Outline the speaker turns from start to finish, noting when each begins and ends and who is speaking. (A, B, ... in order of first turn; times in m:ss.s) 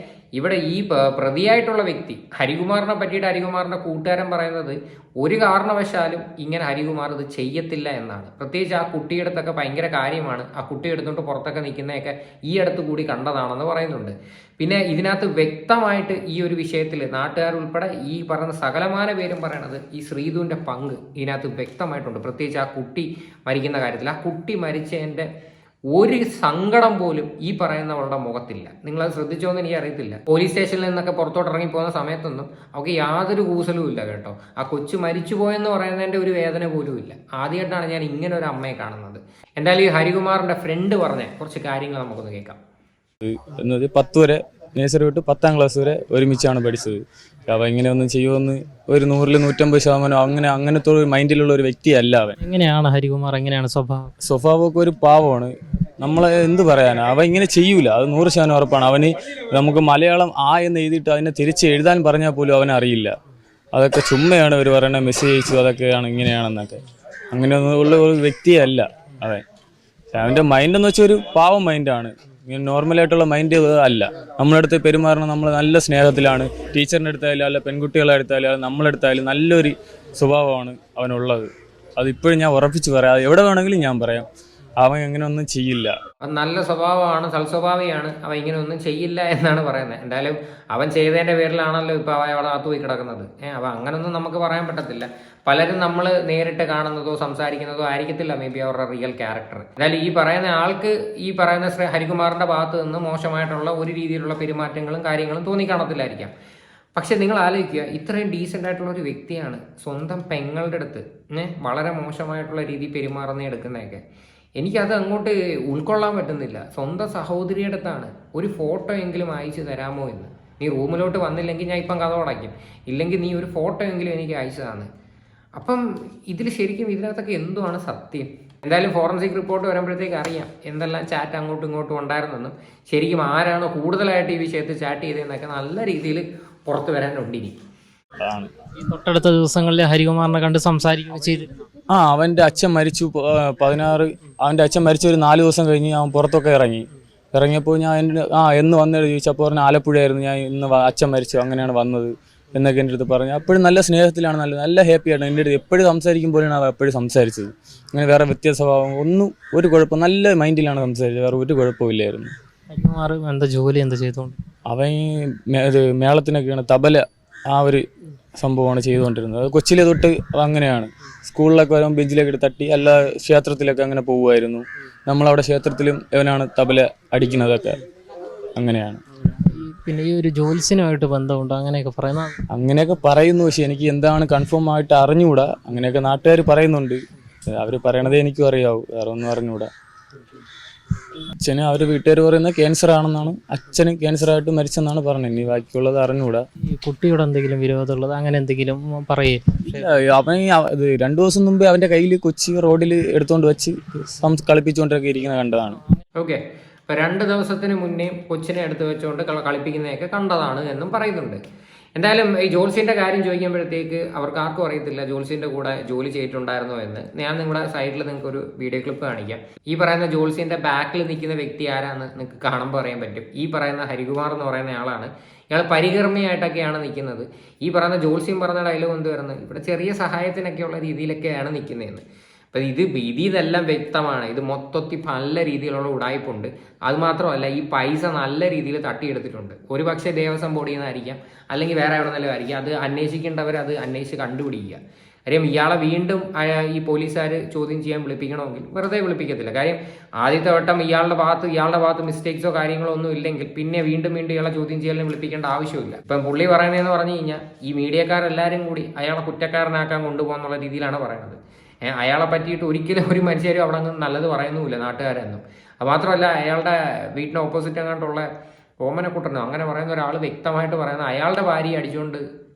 0:00.4-0:25.3 A
0:25.9-0:42.6 A
0:43.2-0:52.4 B
0:52.4-0:54.1 C
0:54.2-1:03.1 B
1:03.7-1:06.8 B
1:07.3-1:09.4 B
1:10.1-1:24.2 B
1:24.8-1:25.9 B
1:26.2-1:46.3 A
1:47.0-1:54.0 A
1:54.6-2:04.9 A
2:05.6-2:17.6 A
2:18.2-2:18.5 B
2:18.8-2:21.5 C
2:21.9-2:42.3 B
2:42.7-2:44.3 C
2:44.7-2:47.8 B
2:48.4-2:57.8 B
2:58.6-2:59.0 B
2:59.4-3:02.3 C
3:02.5-3:09.7 B
3:11.4-3:16.4 B
3:16.7-3:19.8 C
3:19.7-3:25.8 B
3:26.2-3:31.4 A
3:32.0-4:04.8 A
4:05.3-4:28.3 A
4:28.8-4:32.2 A